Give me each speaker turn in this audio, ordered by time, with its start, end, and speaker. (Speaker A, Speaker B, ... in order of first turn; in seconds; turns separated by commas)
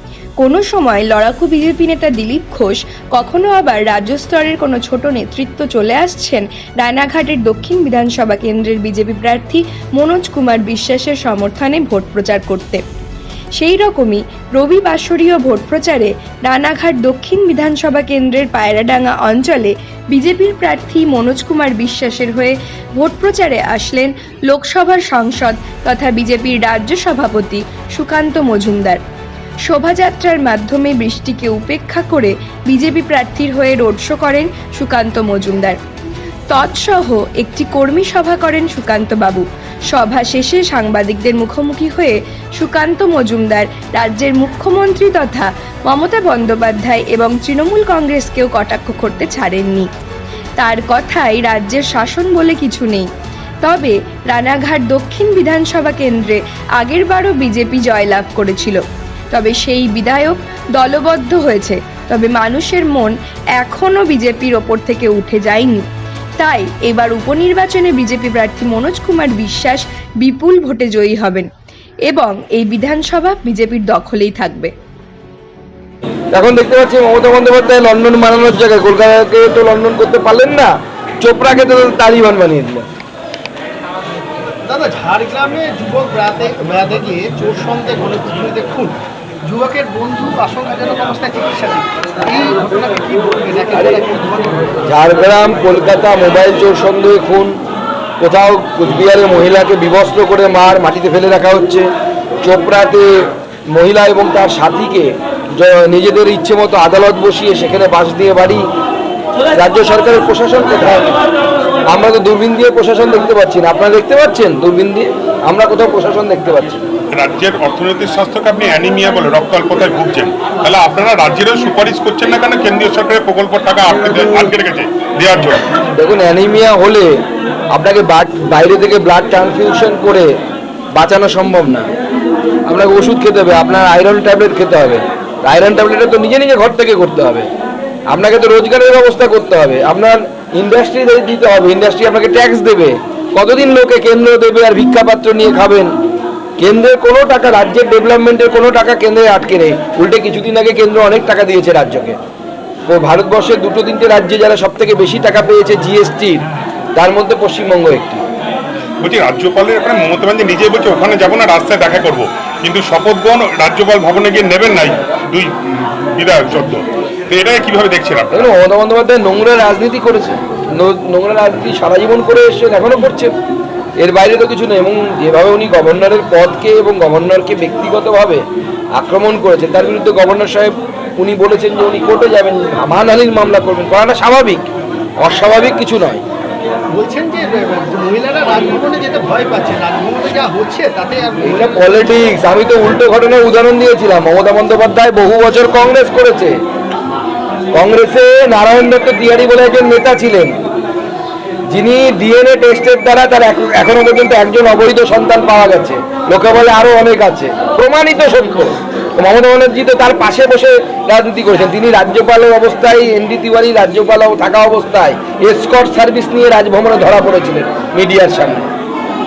Speaker A: 0.4-12.8, Speaker A: 13.6-29.0, Speaker A: 29.6-35.8, Speaker A: 36.5-49.9, Speaker A: 50.6-53.1, Speaker A: 53.6-65.9, Speaker A: 66.4-71.5, Speaker A: 72.1-74.7, Speaker B: 76.3-82.9, Speaker C: 84.6-94.7, Speaker B: 93.8-94.0, Speaker B: 94.9-97.5, Speaker B: 98.2-101.9, Speaker B: 102.4-108.7, Speaker B: 109.5-111.2, Speaker B: 111.9-116.8, Speaker D: 117.1-125.7, Speaker B: 126.0-127.1, Speaker B: 127.7-130.3, Speaker B: 130.9-131.9, Speaker B: 132.7-137.5, Speaker B: 138.1-145.9, Speaker B: 146.6-152.2, Speaker B: 152.9-156.4, Speaker B: 157.0-158.2, Speaker D: 159.0-165.5, Speaker D: 166.1-168.5, Speaker B: 168.3-173.3, Speaker B: 174.0-178.4, Speaker B: 179.0-184.7, Speaker B: 185.2-186.2, Speaker C: 186.9-192.1, Speaker B: 191.4-196.5, Speaker B: 197.7-200.6, Speaker B: 201.7-218.7